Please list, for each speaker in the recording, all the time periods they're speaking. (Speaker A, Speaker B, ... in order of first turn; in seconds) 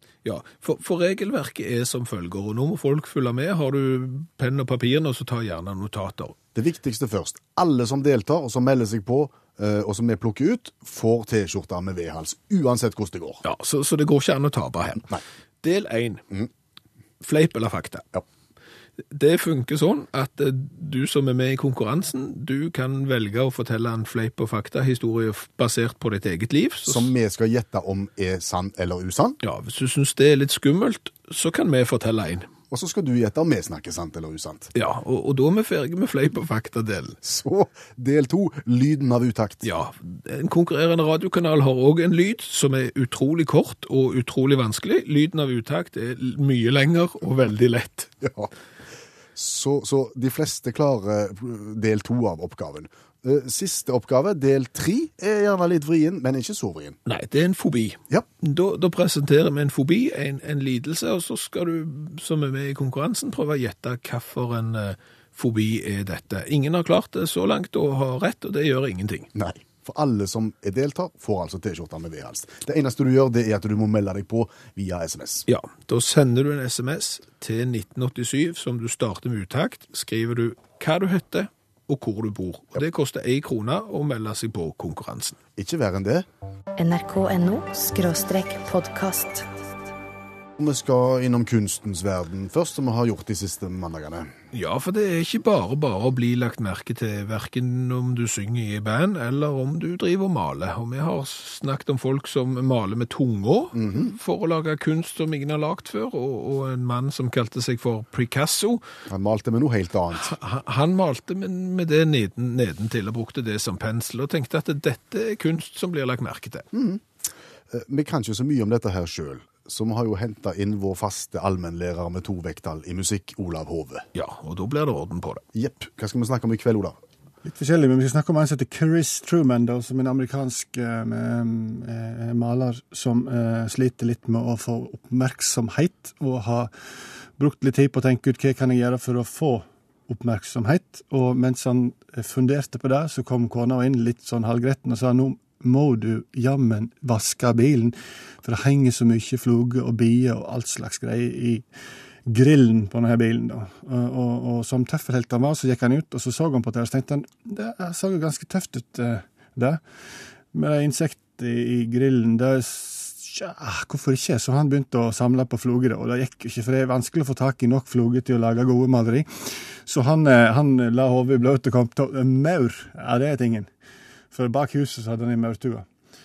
Speaker A: 0.2-6.4, 13.4-15.1, 15.6-16.2, 17.2-18.1, 19.1-27.1, 29.4-32.5, 34.7-37.2, 39.6-48.1, 57.0-69.3, 75.5-85.4, 94.5-108.8, 110.1-116.7, 124.1-125.4
Speaker B: 6.5-13.4, 26.9-29.4, 32.7-34.7, 37.2-39.6, 48.2-48.5, 49.3-57.0, 69.3-75.4, 85.6-86.3, 90.6-94.3, 103.7-104.1, 109.1-110.3, 116.7-117.1, 117.7-124.0, 125.5-127.0
Speaker C: 86.8-89.5
Speaker D: 127.4-136.7, 137.3-151.6, 152.3-159.8, 160.5-169.3, 169.8-173.7, 174.3-175.8